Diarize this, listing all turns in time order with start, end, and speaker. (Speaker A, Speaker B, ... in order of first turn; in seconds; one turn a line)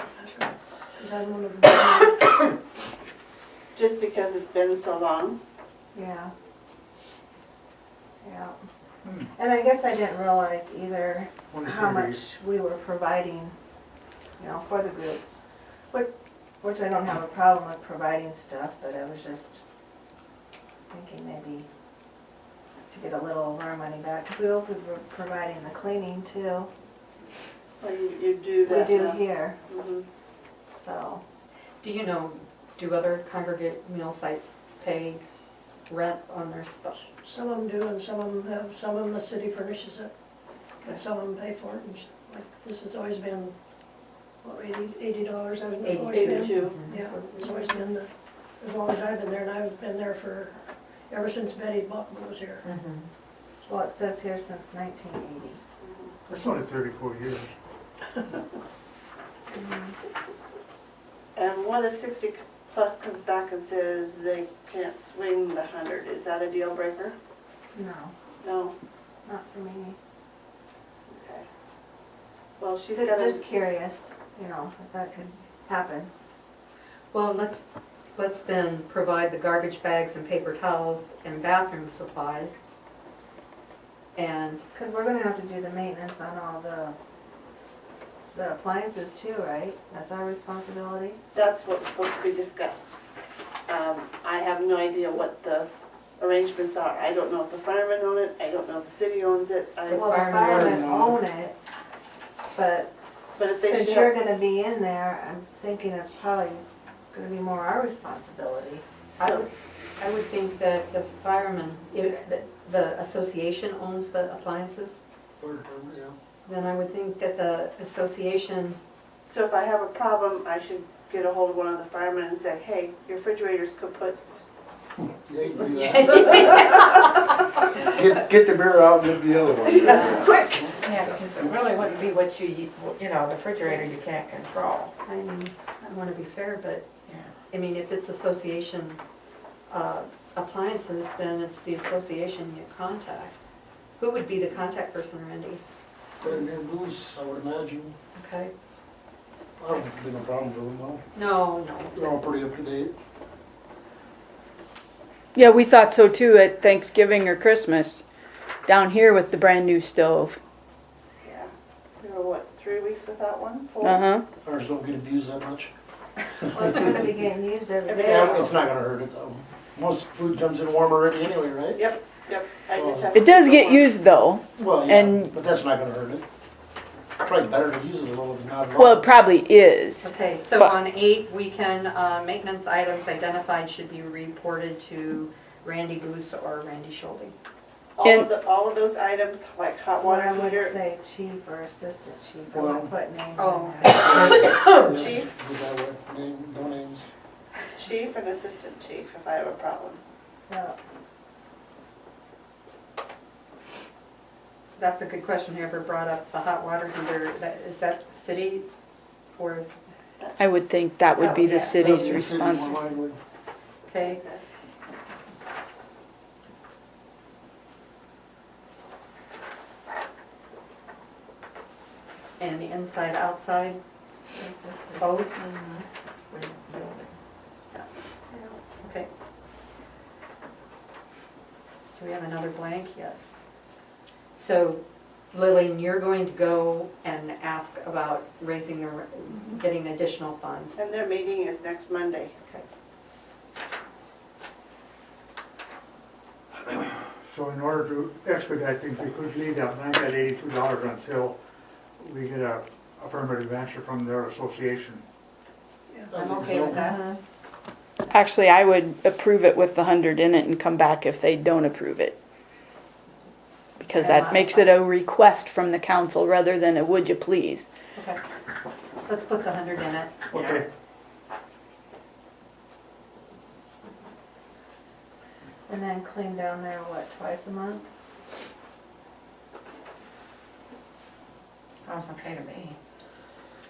Speaker A: 0.2-2.5
Speaker B: 3.8-5.4
Speaker C: 5.9-6.3
Speaker C: 8.2-8.6
Speaker C: 9.3-13.5
Speaker D: 11.5-12.2
Speaker C: 14.4-15.2
Speaker C: 15.9-19.6
Speaker C: 20.9-21.7
Speaker C: 22.9-26.7
Speaker B: 27.8-30.0
Speaker C: 28.6-29.6
Speaker C: 30.7-31.2
Speaker E: 31.8-35.2
Speaker E: 35.9-37.0
Speaker A: 37.2-40.1
Speaker A: 40.8-43.5
Speaker A: 44.4-50.6
Speaker E: 45.8-47.8
Speaker B: 46.1-46.8
Speaker A: 51.1-52.6
Speaker F: 52.7-53.0
Speaker C: 53.7-55.6
Speaker B: 55.8-56.1
Speaker D: 56.3-57.5
Speaker C: 59.5-60.0
Speaker B: 61.4-67.1
Speaker C: 67.7-68.1
Speaker B: 68.4-68.7
Speaker C: 69.3-70.0
Speaker B: 71.1-71.5
Speaker B: 72.6-73.4
Speaker C: 72.9-76.1
Speaker E: 77.1-77.6
Speaker E: 78.1-82.6
Speaker E: 84.1-84.6
Speaker C: 84.7-87.0
Speaker C: 88.3-91.2
Speaker B: 91.3-93.0
Speaker B: 93.7-100.7
Speaker C: 99.9-101.5
Speaker E: 100.2-100.7
Speaker G: 100.6-101.2
Speaker C: 102.5-102.9
Speaker B: 103.4-104.2
Speaker C: 103.6-108.8
Speaker E: 109.2-115.0
Speaker B: 109.2-109.5
Speaker G: 115.4-116.2
Speaker E: 116.5-118.8
Speaker B: 119.3-124.4
Speaker G: 125.0-126.9
Speaker E: 125.6-127.3
Speaker G: 127.8-130.8
Speaker E: 129.9-130.2
Speaker C: 129.9-130.5
Speaker F: 130.8-134.9
Speaker E: 135.0-136.8
Speaker E: 137.5-139.0
Speaker E: 139.7-143.3
Speaker E: 144.0-145.6
Speaker G: 146.2-147.9
Speaker E: 148.2-148.5
Speaker G: 149.6-151.0
Speaker E: 151.1-152.2
Speaker G: 151.9-152.9
Speaker H: 155.3-158.0
Speaker H: 158.7-160.4
Speaker B: 161.2-164.1
Speaker H: 163.8-164.3
Speaker G: 164.4-165.7
Speaker C: 166.5-168.5
Speaker G: 166.5-166.9
Speaker B: 167.9-168.5
Speaker G: 168.0-171.9
Speaker B: 171.8-174.0
Speaker G: 172.7-173.1
Speaker H: 173.1-175.3
Speaker G: 174.5-176.2
Speaker G: 177.2-179.1
Speaker H: 178.8-180.7
Speaker E: 180.0-187.3
Speaker B: 187.9-190.8
Speaker H: 188.0-188.3
Speaker C: 190.0-194.1
Speaker G: 192.5-192.9
Speaker E: 193.4-194.4
Speaker G: 193.9-197.1
Speaker F: 194.6-194.8
Speaker B: 194.8-195.3
Speaker B: 197.8-200.0
Speaker C: 200.5-200.8
Speaker E: 204.8-208.7
Speaker E: 209.3-209.8
Speaker H: 210.4-212.8
Speaker E: 211.2-212.1
Speaker G: 211.7-213.2
Speaker E: 213.9-214.2
Speaker B: 214.0-214.4
Speaker E: 222.4-223.8
Speaker C: 224.3-225.1
Speaker E: 224.9-225.4
Speaker F: 225.5-227.1
Speaker E: 228.8-229.1
Speaker E: 231.9-233.4
Speaker E: 234.3-240.8
Speaker B: 240.8-242.3
Speaker D: 246.7-251.4
Speaker D: 252.0-255.0
Speaker G: 256.1-256.9
Speaker C: 256.1-257.2
Speaker E: 256.7-257.0
Speaker H: 258.1-262.2
Speaker H: 263.8-267.6
Speaker E: 264.1-264.5
Speaker E: 269.1-270.1
Speaker D: 270.3-270.7
Speaker C: 275.7-277.8
Speaker F: 281.9-282.7